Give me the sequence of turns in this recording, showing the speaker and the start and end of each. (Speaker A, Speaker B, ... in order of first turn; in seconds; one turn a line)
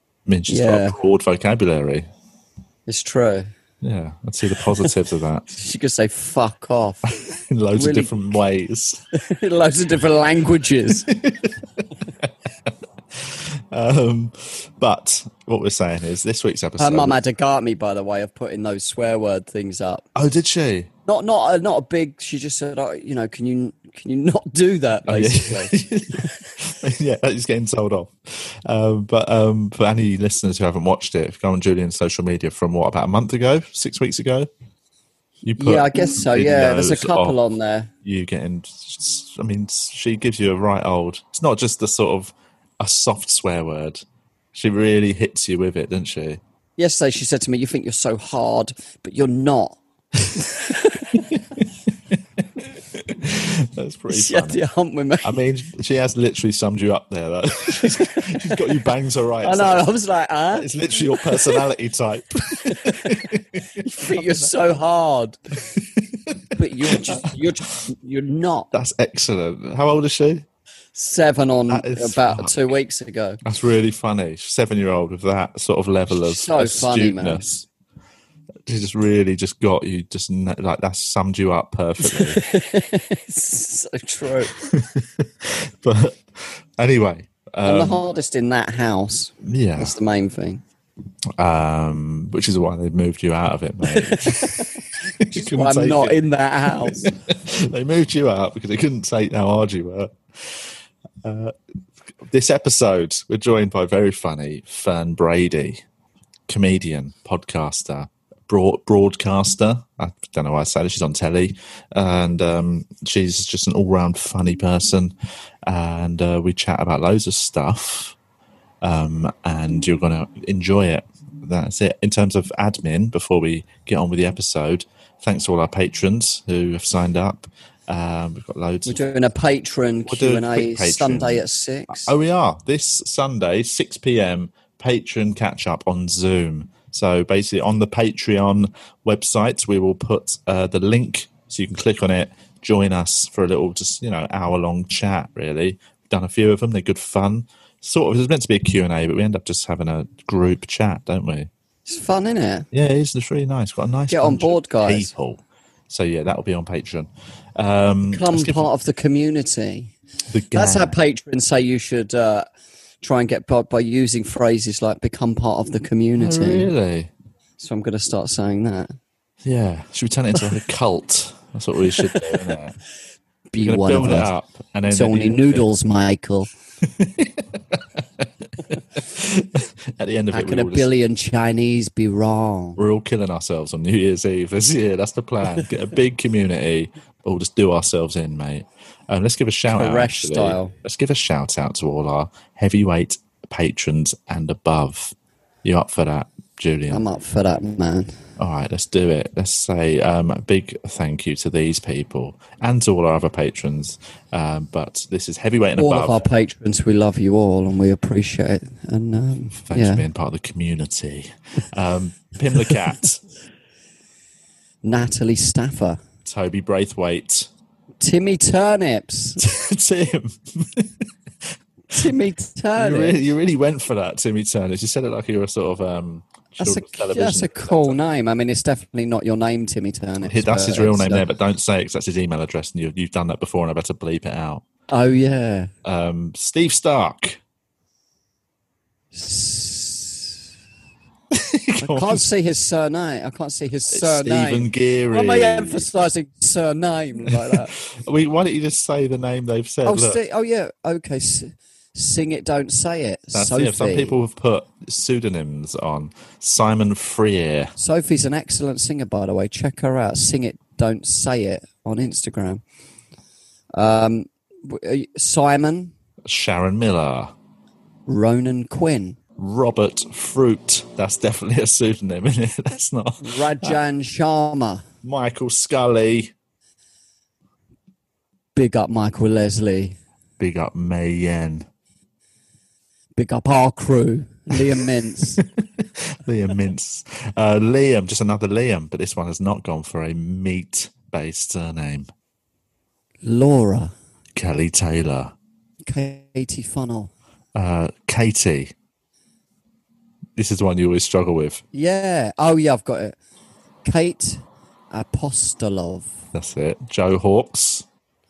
Speaker A: 0.3-2.1
Speaker B: 0.5-0.9
Speaker B: 2.9-3.5
Speaker A: 3.8-5.5
Speaker B: 5.5-7.1
Speaker A: 7.1-9.0
Speaker B: 7.7-8.1
Speaker B: 9.1-11.1
Speaker A: 11.1-11.6
Speaker A: 13.1-17.2
Speaker B: 16.8-20.1
Speaker A: 20.1-20.9
Speaker B: 21.1-26.2
Speaker A: 25.1-34.5
Speaker A: 35.4-37.4
Speaker B: 35.5-37.9
Speaker A: 38.0-46.4
Speaker B: 46.8-51.2
Speaker A: 52.6-54.6
Speaker B: 54.1-55.4
Speaker A: 55.2-59.9
Speaker B: 59.4-61.6
Speaker A: 60.5-64.4
Speaker B: 62.7-63.2
Speaker B: 63.8-65.4
Speaker A: 66.3-67.3
Speaker B: 66.5-68.7
Speaker A: 68.7-70.5
Speaker B: 70.9-73.4
Speaker A: 71.7-72.6
Speaker A: 73.4-77.6
Speaker B: 76.2-77.6
Speaker A: 78.7-82.4
Speaker B: 82.0-84.5
Speaker A: 84.6-88.0
Speaker B: 87.6-90.6
Speaker A: 89.4-90.0
Speaker A: 91.4-101.5
Speaker B: 93.8-94.7
Speaker B: 95.3-97.1
Speaker A: 102.3-105.8
Speaker A: 106.5-118.2
Speaker A: 118.8-129.0
Speaker B: 128.8-132.1
Speaker A: 130.1-151.5
Speaker B: 151.8-152.7
Speaker A: 152.7-158.7
Speaker B: 154.1-155.1
Speaker B: 158.1-159.9
Speaker A: 160.3-160.9
Speaker B: 160.5-162.5
Speaker B: 163.0-166.7
Speaker A: 166.2-167.1
Speaker B: 167.6-168.9
Speaker A: 169.4-172.8
Speaker B: 172.0-172.4
Speaker B: 173.5-174.3
Speaker A: 173.6-175.7
Speaker B: 174.9-176.5
Speaker A: 176.8-180.9
Speaker B: 180.3-182.8
Speaker A: 182.8-197.0
Speaker B: 189.7-190.7
Speaker B: 196.9-198.2
Speaker A: 198.4-206.2
Speaker B: 205.8-210.0
Speaker A: 209.6-213.2
Speaker B: 214.8-216.0
Speaker A: 216.2-217.5
Speaker B: 218.0-219.4
Speaker A: 219.4-222.1
Speaker B: 221.9-223.2
Speaker A: 222.8-228.0
Speaker B: 226.6-231.2
Speaker A: 230.2-234.7
Speaker B: 234.9-235.7
Speaker A: 235.8-237.4
Speaker B: 239.1-240.3
Speaker A: 241.3-242.3
Speaker B: 241.8-247.7
Speaker A: 243.9-245.9
Speaker A: 247.3-250.2
Speaker B: 249.8-254.2
Speaker A: 253.3-257.7
Speaker B: 257.8-262.6
Speaker B: 263.7-265.9
Speaker A: 266.2-267.3
Speaker B: 268.1-269.2
Speaker A: 269.4-273.8
Speaker B: 273.2-274.8
Speaker A: 275.0-276.3
Speaker B: 278.5-280.0
Speaker A: 280.4-281.7
Speaker B: 283.1-285.4
Speaker A: 285.4-292.1
Speaker B: 293.2-293.9
Speaker A: 294.3-295.3
Speaker B: 295.8-297.1
Speaker A: 297.5-298.7
Speaker A: 300.4-301.6
Speaker B: 301.7-303.1
Speaker B: 303.8-306.1
Speaker A: 306.3-307.9